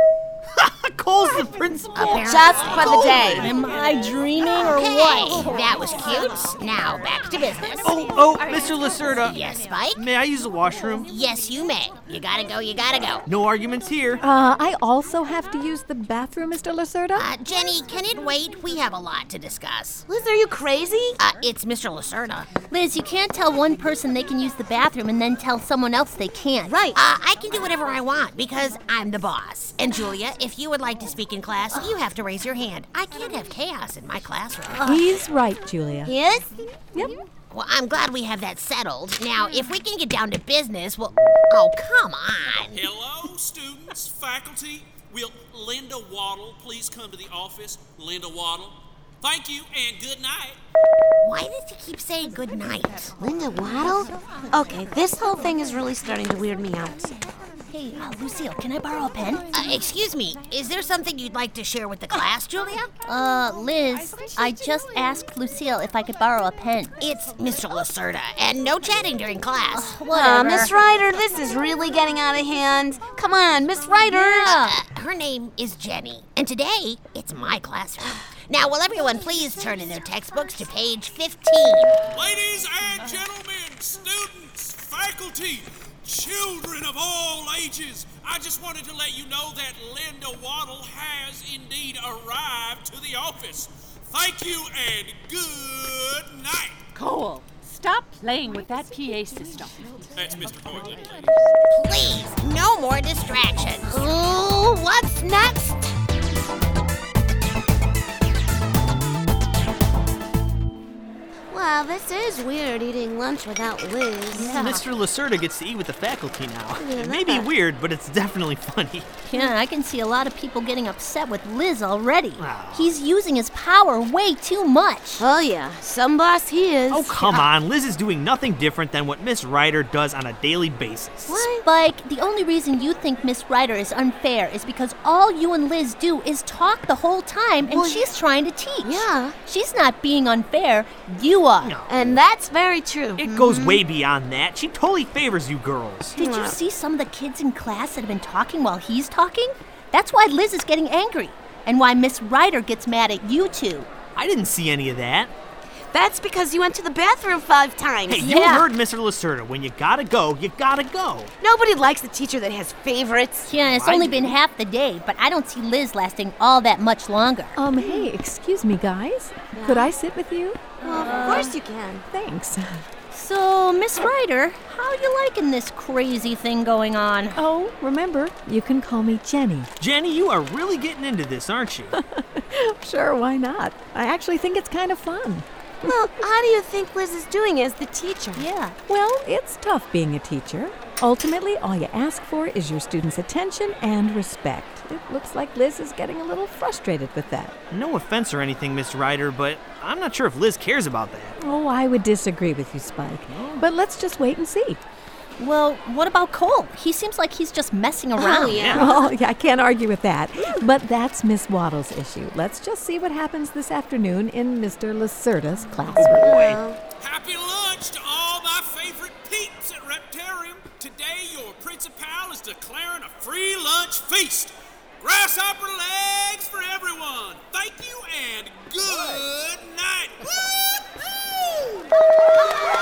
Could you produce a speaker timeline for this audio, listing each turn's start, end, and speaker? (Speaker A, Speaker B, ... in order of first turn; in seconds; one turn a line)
Speaker A: 0.6-2.4
Speaker B: 1.9-3.2
Speaker C: 2.2-3.5
Speaker D: 2.6-5.6
Speaker B: 4.6-8.0
Speaker A: 7.8-9.4
Speaker B: 9.2-10.0
Speaker A: 10.0-11.1
Speaker B: 11.1-13.3
Speaker A: 13.3-14.2
Speaker E: 14.2-17.3
Speaker B: 17.2-20.0
Speaker C: 20.1-21.2
Speaker B: 21.2-22.5
Speaker D: 22.7-26.8
Speaker C: 26.7-27.0
Speaker B: 26.9-35.0
Speaker E: 34.8-36.1
Speaker C: 36.1-36.6
Speaker B: 37.5-42.8
Speaker F: 42.7-50.6
Speaker B: 51.2-53.1
Speaker C: 53.2-57.1
Speaker D: 57.7-59.5
Speaker B: 59.5-62.9
Speaker D: 63.1-66.9
Speaker B: 67.0-70.6
Speaker D: 69.8-70.7
Speaker C: 70.1-74.6
Speaker D: 74.1-74.8
Speaker B: 74.4-82.0
Speaker F: 82.1-96.8
Speaker G: 97.0-100.0
Speaker F: 100.2-101.3
Speaker B: 101.7-105.6
Speaker C: 105.5-105.8
Speaker C: 111.5-114.8
Speaker D: 114.4-114.7
Speaker A: 114.5-119.1
Speaker C: 116.8-117.5
Speaker D: 119.3-125.2
Speaker A: 122.4-122.9
Speaker C: 125.2-127.5
Speaker A: 126.9-131.5
Speaker C: 131.3-131.7
Speaker D: 131.5-141.7
Speaker C: 137.7-138.1
Speaker C: 138.8-139.3
Speaker B: 141.6-142.0
Speaker C: 141.9-143.8
Speaker A: 143.2-146.2
Speaker D: 146.2-153.9
Speaker C: 146.2-146.6
Speaker A: 154.2-155.3
Speaker C: 155.9-158.7
Speaker A: 158.1-161.3
Speaker D: 158.3-158.6
Speaker C: 161.4-163.5
Speaker D: 163.5-167.6
Speaker A: 163.6-164.3
Speaker E: 167.6-170.6
Speaker C: 169.6-169.9
Speaker C: 170.8-172.0
Speaker D: 170.9-171.6
Speaker E: 172.1-172.8
Speaker D: 173.1-177.4
Speaker E: 177.4-179.7
Speaker A: 179.8-182.0
Speaker E: 181.9-185.5
Speaker C: 185.8-188.5
Speaker D: 188.4-188.8
Speaker E: 188.9-197.6
Speaker A: 197.7-201.4
Speaker E: 201.4-204.8
Speaker A: 203.3-203.7
Speaker D: 205.4-208.9
Speaker C: 208.2-209.1
Speaker A: 208.5-208.9
Speaker E: 208.7-216.5
Speaker A: 215.9-216.6
Speaker C: 216.0-216.8
Speaker F: 217.0-230.8